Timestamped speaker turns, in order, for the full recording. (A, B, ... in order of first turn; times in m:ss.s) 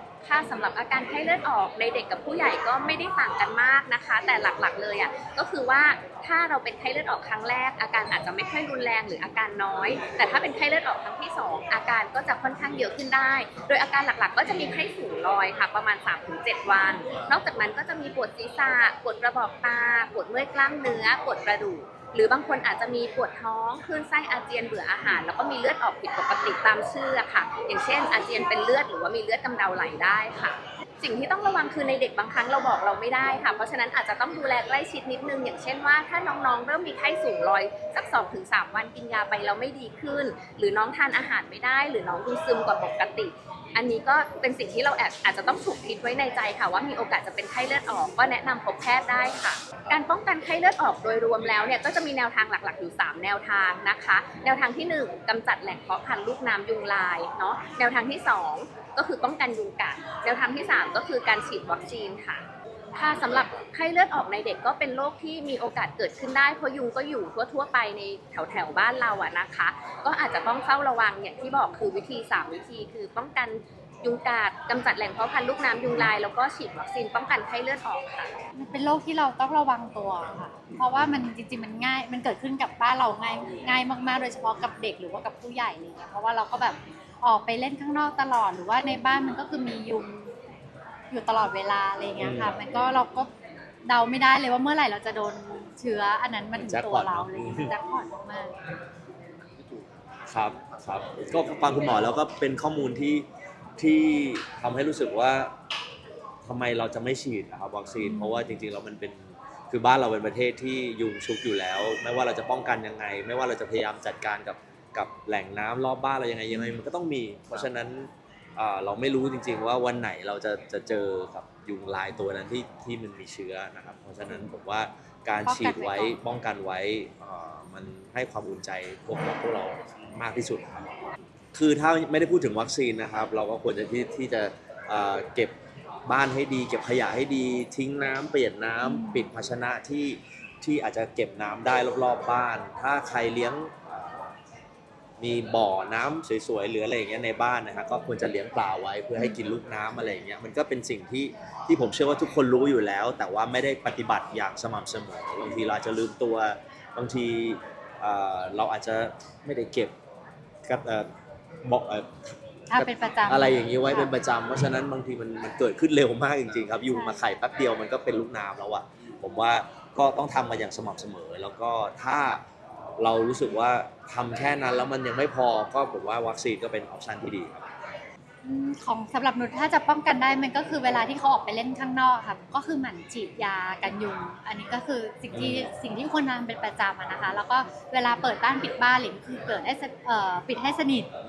0:00.2-1:18.3 A
1:18.6-1:30.3 B
1:31.1-1:33.3 B
1:32.2-1:32.6 C
1:33.8-1:38.5 B
1:36.6-1:37.7 C
1:40.3-1:43.3 C
1:43.8-1:45.5 C
1:46.4-2:10.9 C
1:48.0-1:48.6 B
1:56.5-1:56.8 B
2:05.4-2:06.2 B
2:11.5-2:24.3 C
2:18.8-2:19.3 B
2:25.2-2:39.9 C
2:40.6-2:41.1 C
2:41.6-2:52.4 C
2:42.7-2:44.1 B
2:46.9-2:47.3 B
2:53.0-2:57.7 C
2:58.4-3:11.1 B
3:05.3-3:05.7 C